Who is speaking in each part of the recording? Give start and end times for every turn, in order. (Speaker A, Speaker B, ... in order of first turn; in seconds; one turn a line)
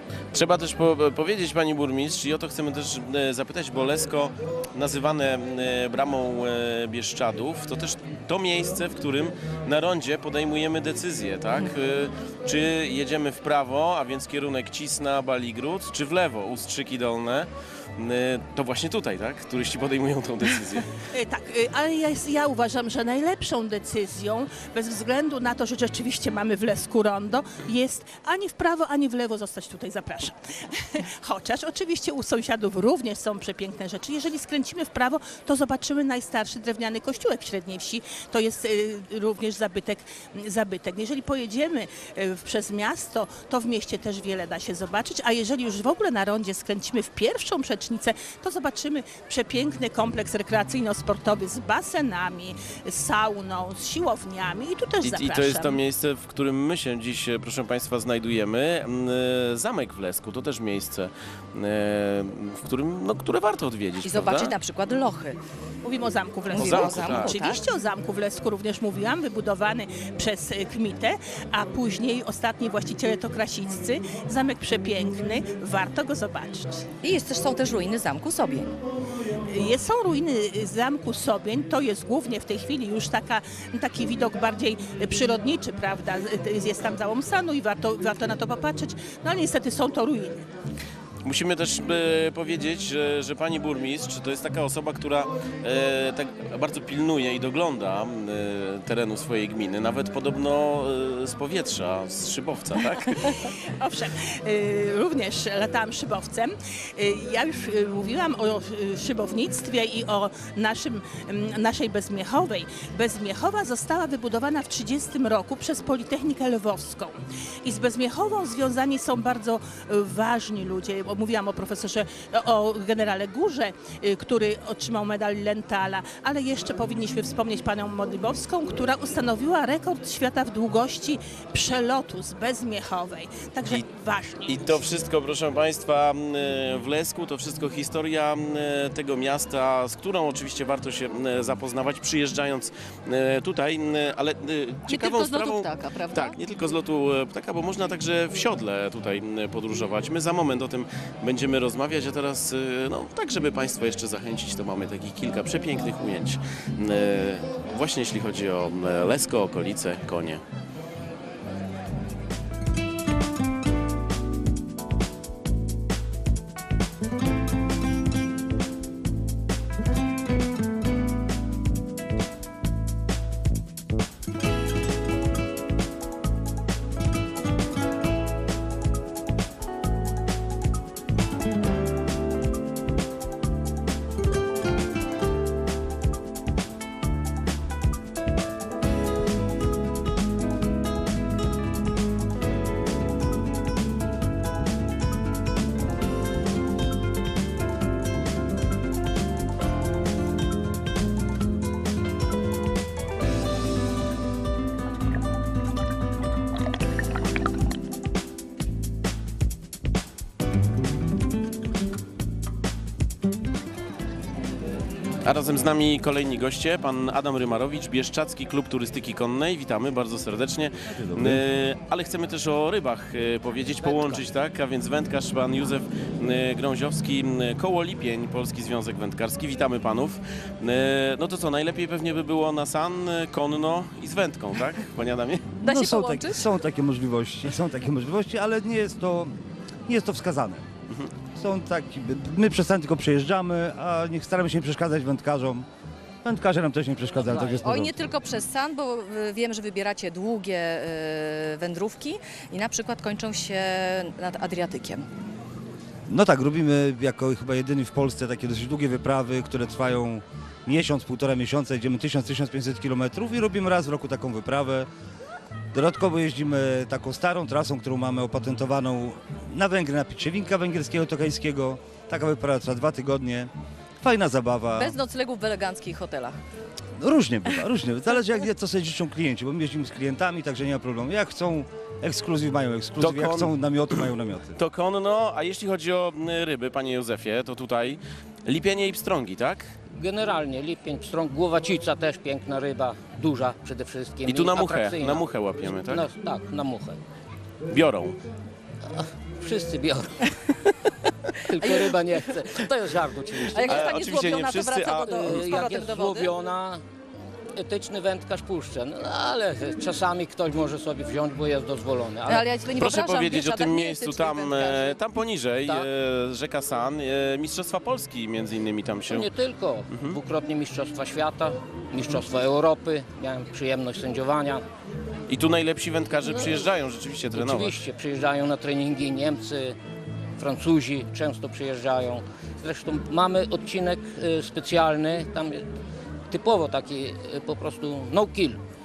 Speaker A: 0.3-20.9
Speaker B: 21.1-55.8
Speaker A: 55.0-64.5
Speaker C: 64.0-65.4
Speaker B: 65.8-76.9
Speaker C: 66.5-67.6
Speaker A: 66.5-67.4
Speaker C: 77.0-78.7
Speaker B: 79.5-90.4
Speaker A: 91.2-103.3
Speaker B: 103.3-134.8
Speaker A: 134.4-160.4
Speaker C: 144.8-146.4
Speaker A: 215.2-235.5
Speaker D: 220.9-221.4
Speaker E: 223.8-224.2
Speaker C: 235.6-236.5
Speaker D: 235.6-239.3
Speaker D: 239.9-240.6
Speaker D: 241.3-245.6
Speaker D: 246.2-247.9
Speaker E: 247.1-247.8
Speaker C: 247.6-255.0
Speaker D: 256.1-264.9
Speaker D: 265.7-273.5
Speaker D: 274.0-274.9
Speaker C: 274.7-276.4
Speaker D: 277.0-284.6
Speaker A: 283.0-283.5
Speaker A: 284.6-289.7
Speaker E: 289.9-297.0
Speaker A: 294.2-296.1
Speaker A: 297.7-298.2
Speaker E: 298.9-300.5
Speaker E: 301.3-304.1
Speaker C: 303.5-306.3
Speaker A: 303.6-305.3
Speaker E: 304.9-306.8
Speaker E: 307.5-312.5
Speaker C: 312.3-315.0
Speaker A: 312.8-319.3
Speaker E: 319.1-324.6
Speaker A: 319.9-320.2
Speaker A: 325.3-327.8
Speaker E: 326.2-326.7
Speaker E: 327.3-329.8
Speaker E: 330.4-335.7
Speaker E: 336.3-338.6